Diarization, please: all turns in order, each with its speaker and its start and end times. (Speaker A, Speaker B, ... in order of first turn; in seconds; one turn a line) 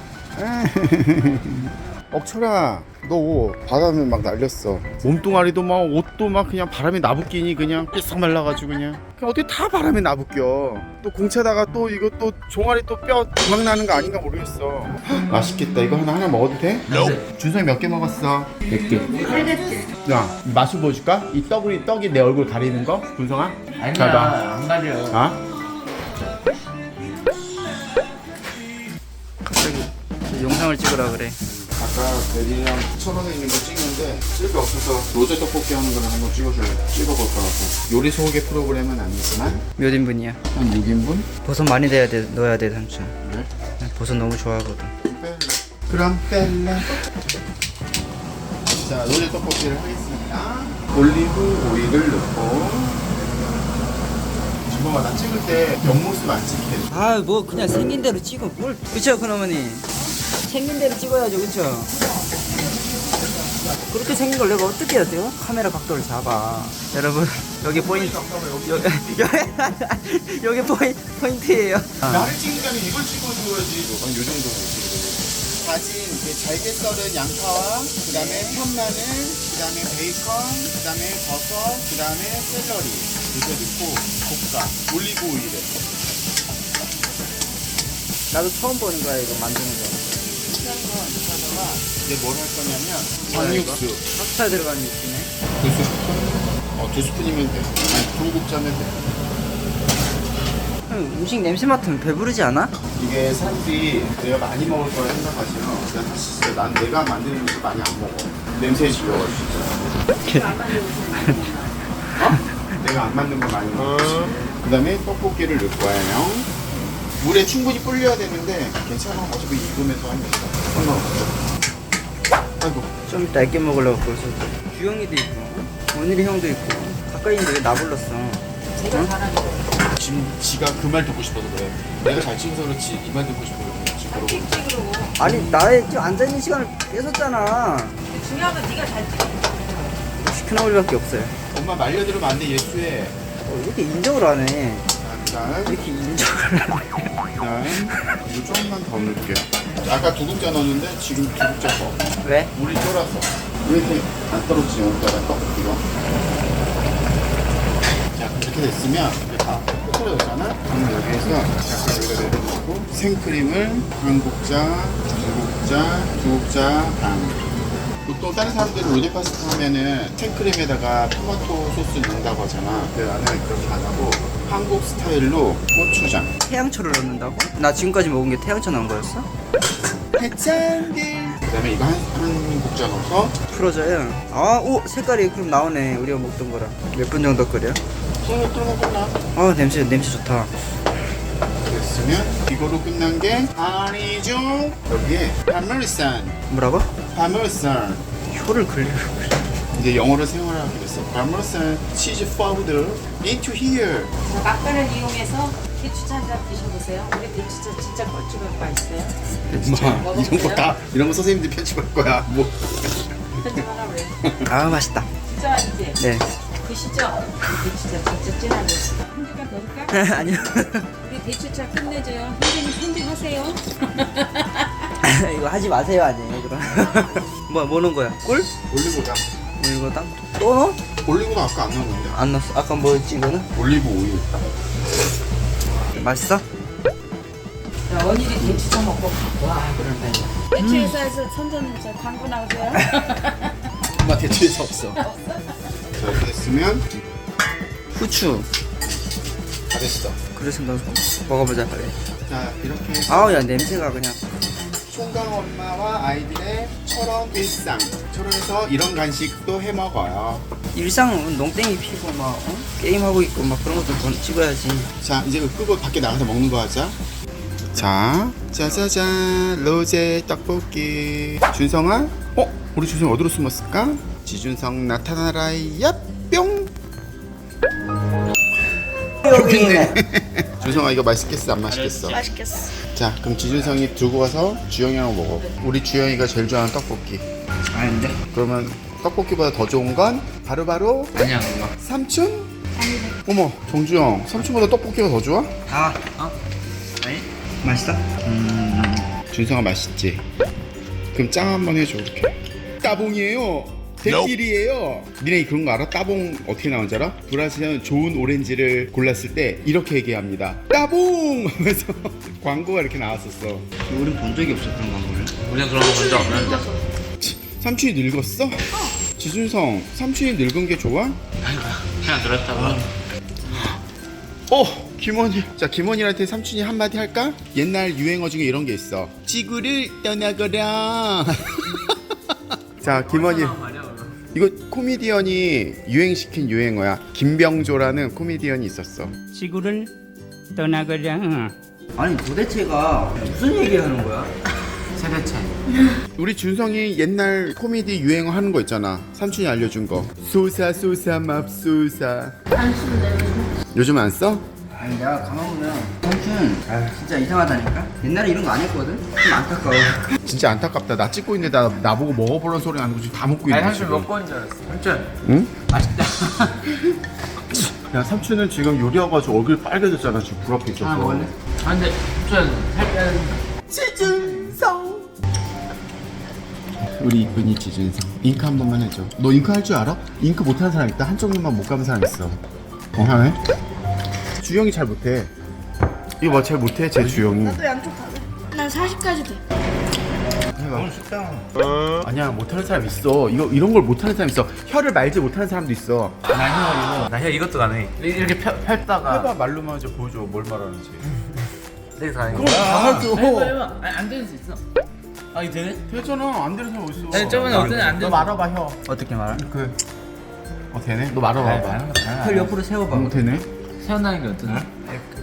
Speaker A: 0.3-24.4
Speaker B: 16.9-17.2
Speaker B: 18.7-19.3
Speaker B: 23.8-25.2
Speaker A: 25.1-25.4
Speaker C: 29.4-31.4
Speaker A: 31.5-39.6
Speaker C: 39.8-40.4
Speaker A: 40.5-41.3
Speaker C: 41.4-43.1
Speaker A: 43.2-43.5
Speaker C: 43.8-44.9
Speaker A: 45.0-47.0
Speaker A: 48.7-53.1
Speaker A: 54.7-56.9
Speaker C: 56.9-59.9
Speaker C: 60.5-61.9
Speaker C: 63.9-72.4
Speaker A: 67.7-69.1
Speaker A: 72.0-85.8
Speaker C: 78.1-78.6
Speaker C: 88.3-90.2
Speaker A: 90.5-94.1
Speaker C: 93.2-95.3
Speaker A: 95.6-99.1
Speaker C: 100.9-102.8
Speaker A: 102.9-109.9
Speaker C: 110.2-111.6
Speaker D: 110.3-111.6
Speaker A: 112.2-116.5
Speaker A: 117.2-121.3
Speaker A: 122.6-122.9
Speaker C: 123.1-129.1
Speaker D: 128.8-129.7
Speaker A: 129.9-134.6
Speaker D: 134.1-135.2
Speaker C: 135.2-138.0
Speaker A: 135.2-135.5
Speaker D: 138.1-140.0
Speaker C: 140.2-141.3
Speaker A: 141.5-143.2
Speaker C: 143.4-144.8
Speaker A: 145.0-145.8
Speaker C: 145.7-147.2
Speaker A: 147.4-155.8
Speaker C: 152.2-152.5
Speaker A: 158.1-167.4
Speaker A: 168.1-176.3
Speaker C: 176.4-179.3
Speaker A: 180.1-183.3
Speaker C: 183.5-187.8
Speaker A: 188.2-189.2
Speaker C: 189.3-190.5
Speaker A: 191.6-196.4
Speaker C: 196.5-196.9
Speaker A: 197.1-198.0
Speaker C: 198.3-199.5
Speaker A: 199.7-204.1
Speaker D: 204.2-209.1
Speaker A: 209.5-213.6
Speaker D: 209.8-210.7
Speaker D: 213.4-214.1
Speaker C: 214.5-215.1
Speaker D: 215.3-216.0
Speaker C: 216.0-216.3
Speaker D: 216.6-219.9
Speaker C: 219.9-220.9
Speaker D: 221.1-224.7
Speaker C: 225.0-228.5
Speaker A: 228.7-229.3
Speaker C: 229.6-230.8
Speaker A: 231.0-232.2
Speaker C: 232.1-233.5
Speaker A: 233.5-234.4
Speaker C: 235.9-236.4
Speaker D: 237.9-243.5
Speaker C: 239.8-240.9
Speaker A: 243.9-245.0
Speaker D: 245.0-245.4
Speaker A: 245.9-246.9
Speaker C: 247.9-248.5
Speaker A: 249.7-250.2
Speaker C: 250.3-251.9
Speaker A: 252.2-253.5
Speaker C: 253.1-254.2
Speaker A: 254.9-260.5
Speaker C: 260.7-264.9
Speaker A: 265.0-267.0
Speaker A: 267.7-276.7
Speaker A: 279.2-282.2
Speaker B: 281.7-282.2
Speaker E: 282.1-282.7
Speaker A: 282.9-287.2
Speaker C: 287.7-288.2
Speaker A: 288.3-291.1
Speaker B: 291.2-291.6
Speaker A: 291.8-292.5
Speaker E: 292.8-293.1
Speaker A: 293.2-295.5
Speaker C: 295.7-296.3
Speaker C: 297.0-299.1
Speaker A: 299.3-300.2
Speaker A: 301.1-313.7
Speaker C: 313.9-315.3
Speaker B: 315.4-316.7
Speaker E: 316.0-316.6
Speaker A: 317.2-321.2
Speaker B: 321.4-322.9
Speaker A: 323.5-323.8
Speaker A: 324.5-331.9
Speaker A: 332.8-333.6
Speaker B: 332.8-333.9
Speaker A: 334.3-339.1
Speaker C: 339.3-339.9
Speaker C: 340.5-344.3
Speaker C: 345.0-345.5
Speaker A: 346.1-352.4
Speaker A: 353.7-354.4
Speaker C: 354.8-360.1
Speaker A: 360.2-364.1
Speaker B: 363.5-365.1
Speaker A: 365.2-365.5
Speaker B: 365.7-366.3
Speaker A: 367.9-371.3
Speaker C: 370.9-371.2
Speaker B: 371.6-373.4
Speaker A: 373.7-375.1
Speaker A: 377.0-382.4
Speaker A: 382.9-383.4
Speaker A: 384.4-385.3
Speaker A: 386.2-387.6
Speaker E: 387.4-389.4
Speaker A: 390.6-390.9
Speaker B: 390.8-391.4
Speaker A: 392.0-396.2
Speaker B: 396.3-399.3
Speaker A: 399.0-401.1
Speaker B: 402.0-404.6
Speaker A: 402.3-403.1
Speaker C: 402.4-403.6
Speaker B: 405.3-405.8
Speaker A: 405.9-408.8
Speaker B: 407.1-408.4
Speaker C: 407.3-408.2
Speaker C: 408.9-409.4
Speaker A: 409.3-409.8
Speaker A: 410.7-411.9
Speaker B: 411.4-412.5
Speaker C: 412.2-413.1
Speaker A: 412.9-413.4
Speaker B: 413.8-414.7